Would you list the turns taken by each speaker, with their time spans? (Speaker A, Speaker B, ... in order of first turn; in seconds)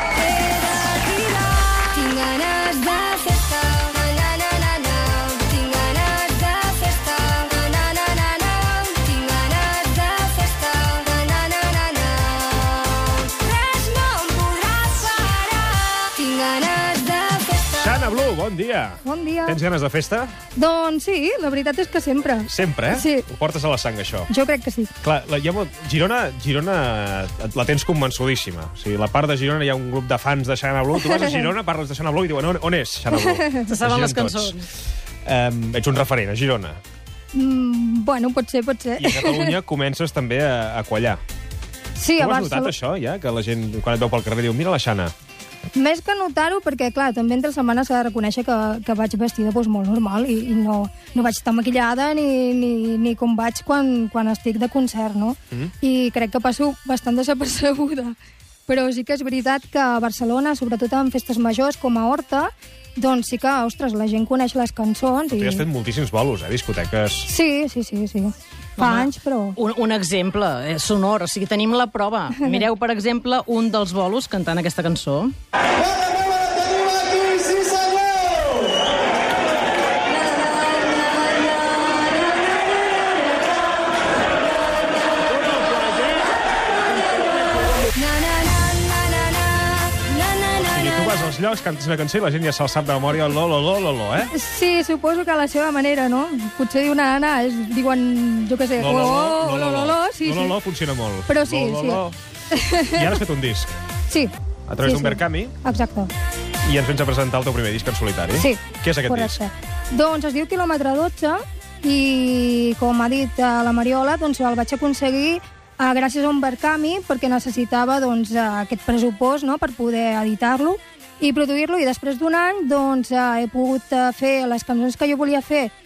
Speaker A: 0.2-1.8, 2.4-3.3, 9.7-10.8, 14.3-15.2, 16.6-17.6, 19.0-19.6, 20.6-23.3, 24.3-24.9, 31.1-31.5, 33.2-33.6, 37.3-39.6, 42.0-42.7, 45.8-58.1, 58.7-65.7, 67.3-69.6, 88.0-90.6, 94.3-100.6, 101.3-103.1, 104.1-106.1, 108.4-125.7
Speaker B: 1.5-17.8, 88.1-90.5
Speaker C: 17.7-20.3, 22.5-24.3, 25.0-34.5, 35.3-36.8, 39.0-41.2, 42.2-45.1, 65.3-67.3, 90.6-94.3, 98.8-102.2, 102.9-103.7, 104.7-105.6, 106.6-109.4
Speaker D: 33.7-34.7, 68.8-75.3